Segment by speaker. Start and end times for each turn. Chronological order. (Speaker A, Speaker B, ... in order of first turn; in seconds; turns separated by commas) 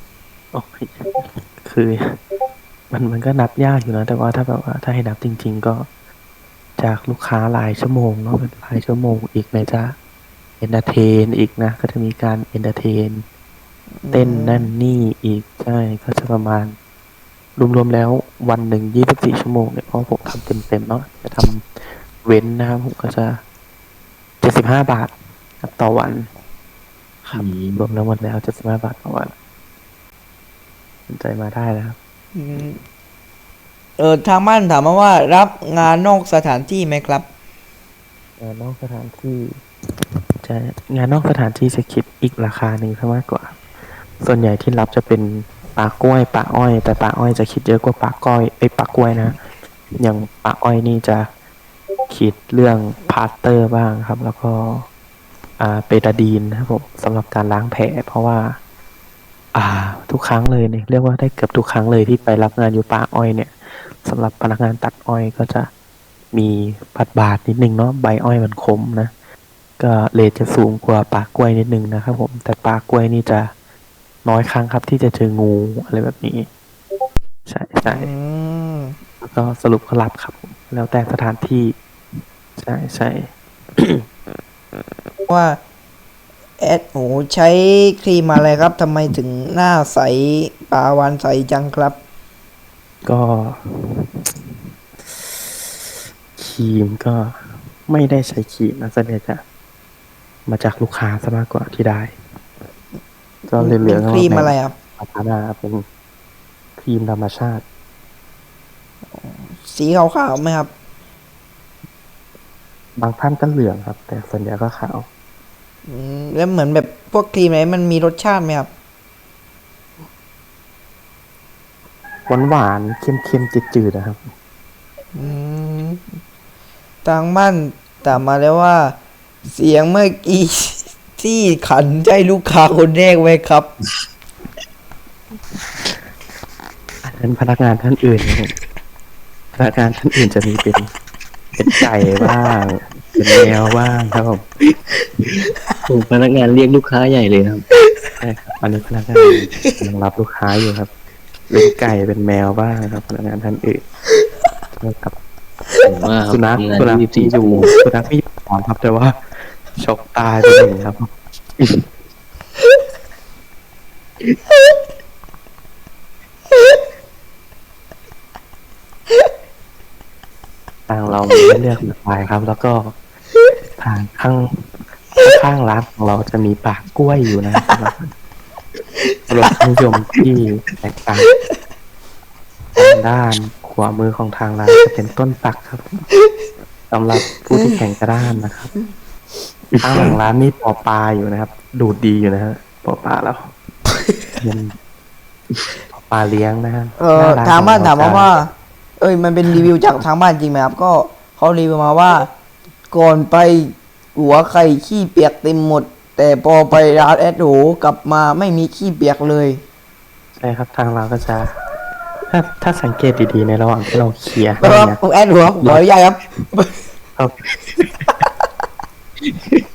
Speaker A: 0.5-2.2, Speaker A: 2.9-5.9, Speaker A: 6.8-9.9, Speaker A: 10.6-13.2, Speaker B: 14.0-14.7, Speaker A: 14.1-16.7, Speaker A: 17.6-23.4, Speaker A: 24.4-26.3, Speaker A: 27.2-29.3, Speaker C: 27.3-27.8, Speaker A: 31.1-32.0, Speaker B: 32.3-32.8, Speaker B: 34.0-37.3, Speaker A: 38.4-39.6, Speaker A: 40.4-43.6, Speaker A: 44.2-49.4, Speaker A: 50.0-51.3, Speaker A: 52.1-54.9, Speaker A: 55.6-58.5, Speaker A: 59.5-65.7, Speaker A: 66.3-69.1, Speaker A: 69.8-73.5, Speaker A: 74.2-76.5, Speaker A: 77.5-78.1, Speaker B: 77.8-79.0, Speaker A: 79.2-81.8, Speaker A: 82.6-84.0, Speaker B: 85.3-85.6, Speaker B: 86.6-92.0, Speaker A: 93.0-94.4, Speaker A: 96.3-99.4, Speaker A: 100.5-102.1, Speaker A: 103.5-105.8, Speaker B: 103.6-104.7, Speaker A: 106.8-107.6, Speaker B: 109.1-110.7, Speaker A: 113.0-115.0, Speaker B: 115.9-118.7, Speaker A: 122.3-124.3, Speaker B: 125.1-126.0, Speaker B: 127.0-128.9, Speaker B: 129.5-133.7, Speaker A: 137.0-138.5, Speaker A: 139.5-140.9, Speaker A: 141.6-144.4, Speaker C: 145.2-147.6, Speaker A: 148.2-150.9, Speaker B: 149.2-149.7, Speaker A: 151.5-153.8, Speaker A: 154.8-155.1, Speaker C: 155.8-157.7, Speaker A: 156.3-161.1, Speaker A: 170.9-172.9, Speaker A: 173.8-174.6, Speaker A: 175.2-178.1, Speaker B: 178.9-179.5, Speaker A: 179.3-181.3, Speaker A: 182.8-186.0, Speaker A: 186.9-188.7, Speaker B: 187.2-187.8, Speaker C: 189.8-190.1, Speaker A: 189.8-193.5, Speaker B: 194.0-194.3, Speaker A: 194.4-194.7, Speaker A: 195.9-198.3, Speaker B: 197.0-202.3, Speaker B: 202.9-209.6, Speaker A: 210.3-211.5, Speaker A: 212.3-215.0, Speaker B: 214.6-216.8, Speaker A: 217.2-218.1